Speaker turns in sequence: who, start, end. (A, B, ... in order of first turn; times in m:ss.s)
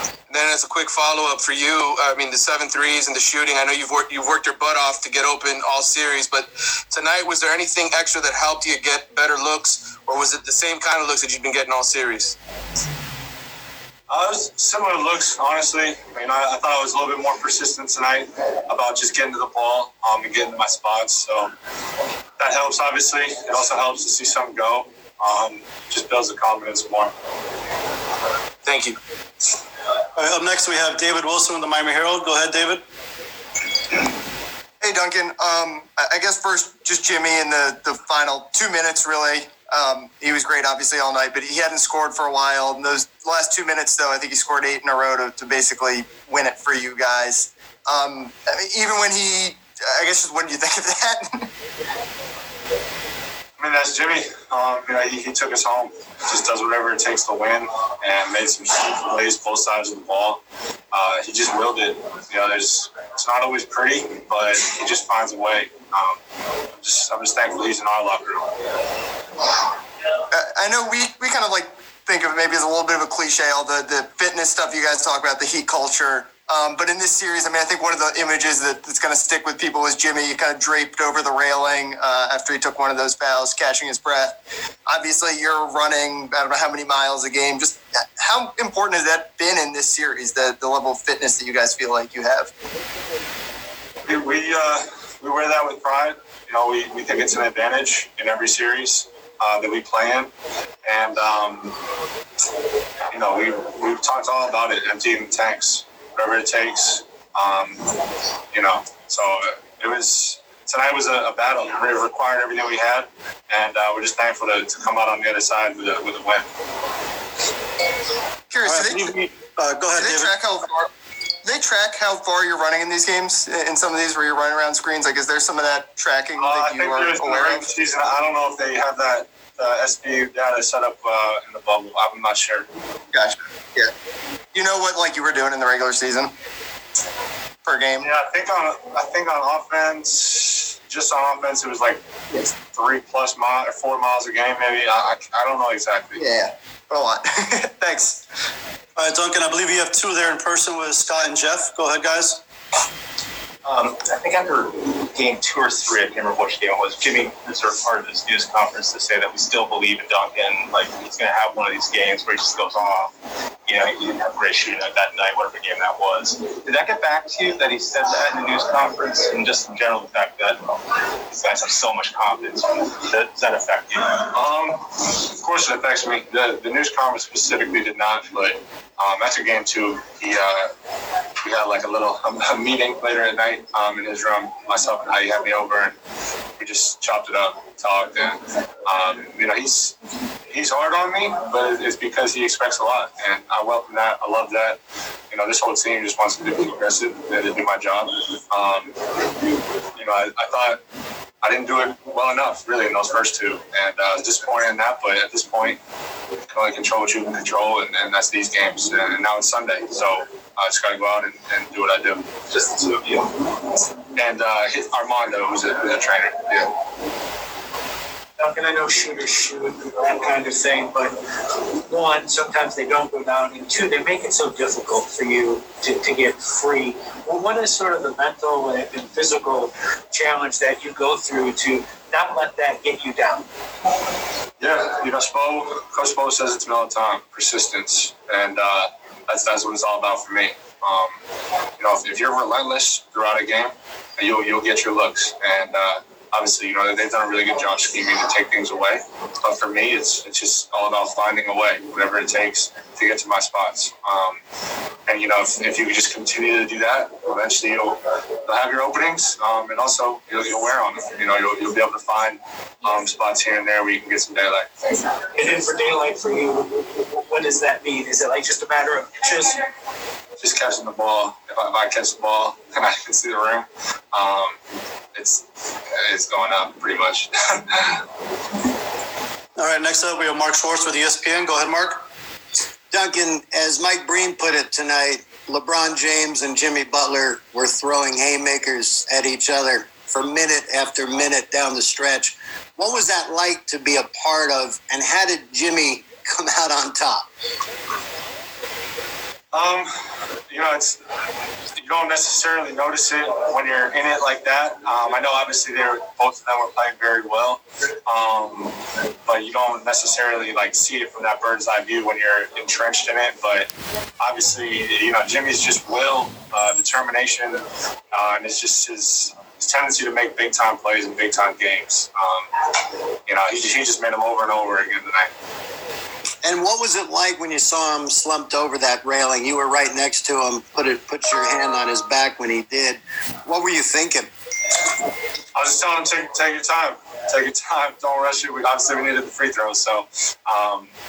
0:00.3-0:12.3 A
0:14.1-0:21.5 B
0:22.4-0:27.1 B
0:30.2-0:32.8 C
0:34.8-0:51.5 D
0:53.6-1:06.2 B
1:06.8-1:08.5 B
1:10.3-1:24.4 D
1:24.9-1:32.5 D
1:34.1-1:40.3 B
1:40.8-1:41.8 B
1:43.1-1:47.9 B
1:48.5-1:56.4 B
1:58.5-1:59.1 D
1:58.6-2:00.5 C
2:00.0-2:00.9 D
2:01.4-2:07.7 D
2:06.4-2:12.7 B
2:13.1-2:13.9 D
2:14.5-2:16.3 D
2:17.6-2:18.1 D
2:18.0-2:22.0 B
2:22.6-2:26.2 B
2:26.2-2:28.2 D
2:29.0-2:32.4 C
2:33.6-2:43.1 E
2:43.7-2:50.7 E
2:51.3-2:54.2 E
2:54.3-3:00.7 B
3:01.4-3:06.0 B
3:06.6-3:10.0 B
3:10.5-3:14.8 B
3:15.3-3:18.9 B
3:20.0-3:20.8 B
3:21.4-3:25.8 B
3:26.5-3:32.7 B
3:34.1-3:36.7 B
3:38.4-3:41.2 F
3:41.9-3:53.5 F
3:54.6-4:01.2 B
4:01.8-4:14.4 B
4:15.1-4:24.7 B
4:25.3-4:29.6 F
4:30.4-4:34.6 B
4:35.2-4:38.0 B
4:39.6-4:42.0 C
4:42.9-4:57.3 G
4:59.5-4:59.9 B
5:00.5-5:01.0 B
5:01.8-5:22.5 B
5:23.3-5:25.3 B
5:26.4-5:34.3 G
5:35.6-5:40.9 B